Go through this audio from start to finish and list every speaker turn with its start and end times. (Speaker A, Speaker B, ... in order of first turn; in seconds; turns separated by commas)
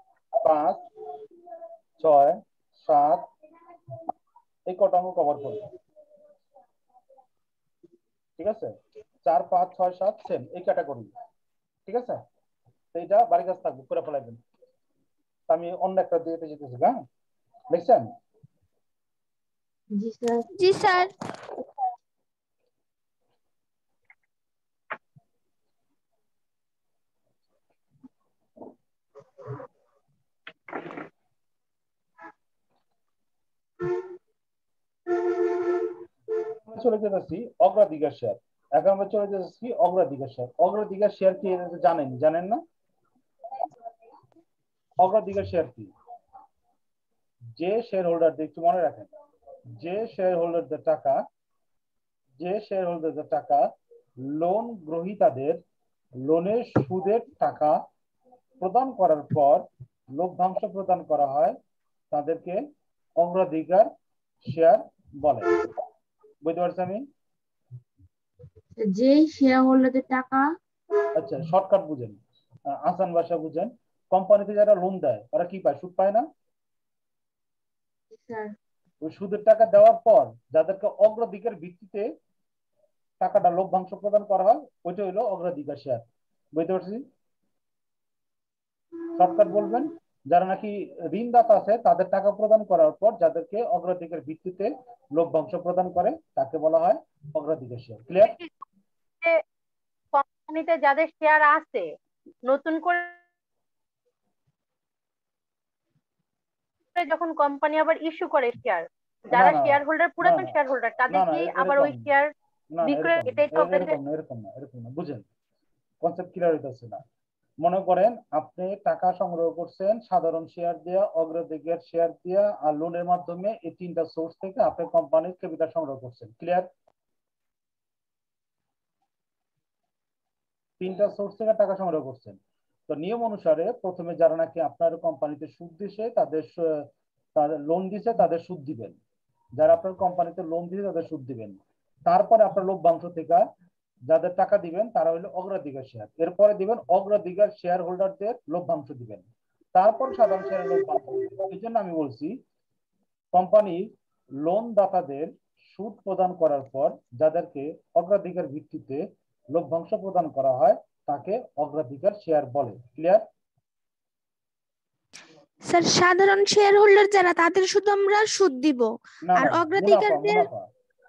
Speaker A: 0.4-0.9, Speaker A: 2.0-3.3, Speaker A: 4.7-5.7, Speaker A: 8.4-11.1, Speaker A: 11.9-12.2, Speaker A: 12.9-14.4, Speaker A: 15.5-17.0, Speaker A: 17.7-18.1, Speaker B: 19.9-20.5, Speaker C: 20.6-21.1, Speaker A: 36.6-42.6, Speaker A: 45.0-45.9, Speaker A: 47.6-49.1, Speaker A: 49.8-51.2, Speaker A: 52.4-53.7, Speaker A: 54.2-55.6, Speaker A: 56.2-57.8, Speaker A: 58.6-61.6, Speaker A: 62.1-62.6, Speaker A: 63.2-63.9, Speaker A: 64.5-65.5, Speaker A: 66.4-67.1, Speaker B: 68.8-70.5, Speaker A: 71.1-72.2, Speaker A: 72.7-76.2, Speaker B: 78.1-78.5, Speaker A: 79.0-82.1, Speaker A: 83.2-87.0, Speaker A: 89.1-98.4, Speaker D: 98.2-98.5, Speaker D: 100.1-101.9, Speaker D: 102.5-103.2, Speaker D: 106.9-112.3, Speaker A: 109.3-110.6, Speaker A: 111.1-112.1, Speaker A: 112.7-115.2, Speaker D: 112.8-114.0, Speaker A: 116.0-117.0, Speaker A: 117.6-126.7, Speaker A: 130.8-139.0, Speaker A: 139.6-143.4, Speaker A: 144.1-152.4, Speaker A: 153.3-163.2, Speaker C: 165.7-170.4, Speaker A: 169.3-170.7